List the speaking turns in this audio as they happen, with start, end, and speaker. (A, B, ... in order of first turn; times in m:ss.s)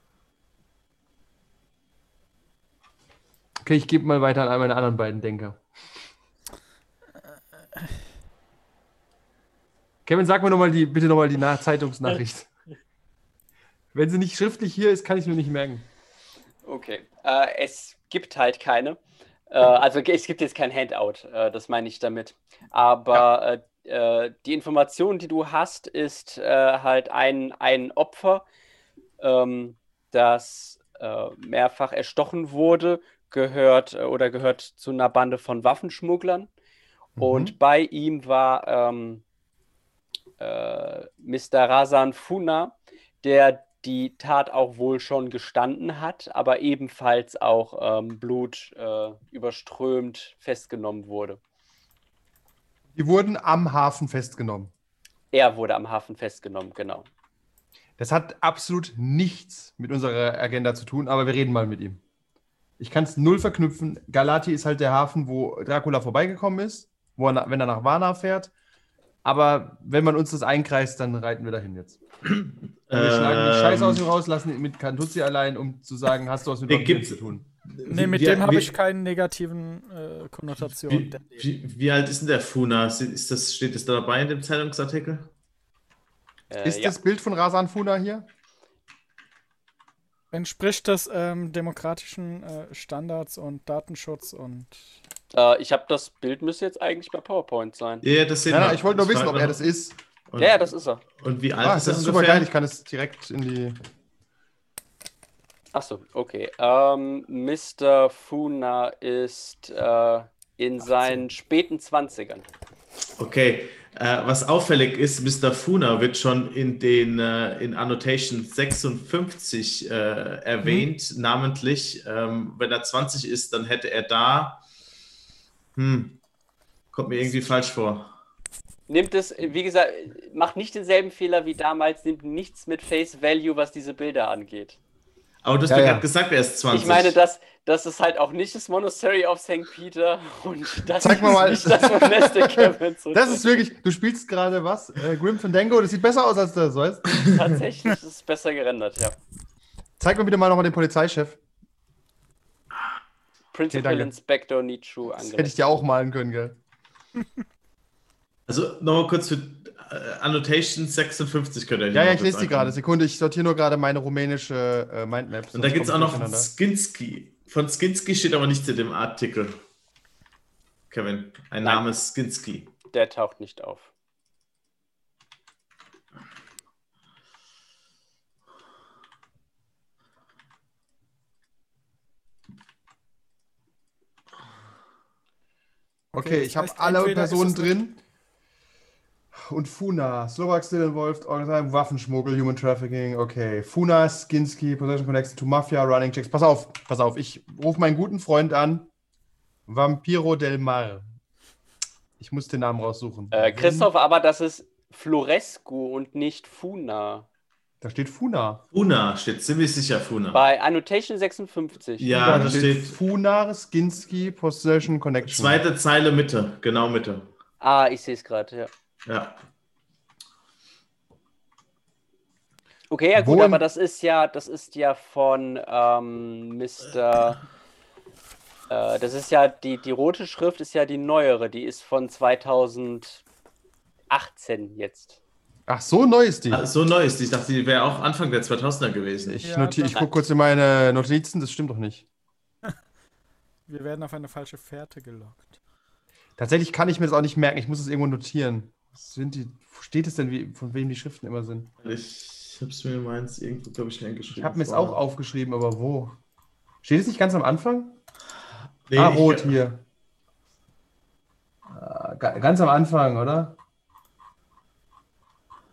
0:03.6-0:05.6 A
0:10.1-0:12.5 A
0:13.9-0:15.9 A
0:16.6-0:19.0 B
0:19.5-0:28.4 B
0:29.2-0:36.5 B
0:37.2-0:37.6 A
0:37.2-0:39.2 B
0:40.4-0:51.4 B
0:52.9-0:54.7 A
0:55.3-0:57.1 B
0:58.0-1:02.0 A
1:02.8-1:08.5 A
1:09.2-1:12.0 A
1:12.2-1:14.0 C
1:12.9-1:17.4 A
1:16.7-1:18.7 C
1:17.9-1:21.4 D
1:20.6-1:25.3 C
1:26.5-1:27.0 B
1:26.6-1:28.3 A
1:30.3-1:34.8 D
1:35.3-1:38.0 B
1:38.0-1:39.6 C
1:38.5-1:40.0 A
1:40.3-1:42.5 C
1:40.4-1:41.0 B
1:41.6-1:43.8 A
1:45.7-1:52.5 B
1:53.2-2:04.6 C
2:05.8-2:06.2 C
2:06.9-2:08.1 C
2:08.9-2:14.8 B
2:15.4-2:17.2 C
2:15.7-2:16.1 A
2:16.7-2:23.6 B
2:21.0-2:27.2 A
2:27.2-2:29.2 B
2:30.0-2:31.4 A
2:33.5-2:35.6 B
2:33.7-2:34.1 A
2:35.2-2:36.6 A
2:38.5-2:42.8 C
2:41.9-2:46.5 A
2:45.5-2:49.6 C
2:50.9-2:52.7 C
2:52.9-2:53.9 B
3:06.1-3:08.0 A
3:06.2-3:07.8 D
3:09.3-3:18.9 A
3:19.7-3:21.0 A
3:22.2-3:23.9 A
3:23.3-3:27.3 B
3:27.8-3:28.6 A
3:28.7-3:30.4 C
3:30.3-3:32.6 B
3:32.0-3:33.0 C
3:32.1-3:35.6 A
3:35.2-3:37.3 C
3:37.6-3:38.7 B
3:39.1-3:39.4 C
3:42.9-3:47.4 B
3:43.2-3:43.6 A
3:48.7-3:53.2 B
3:54.1-3:55.2 B
3:55.7-3:56.7 A
3:56.5-3:59.4 C
3:59.2-4:02.0 A
3:59.4-4:00.0 D
4:03.7-4:05.6 D
4:06.4-4:11.7 A
4:11.8-4:15.0 C
4:14.3-4:16.2 A
4:16.8-4:18.0 A
4:18.9-4:19.6 C
4:18.9-4:19.8 A
4:21.7-4:23.6 A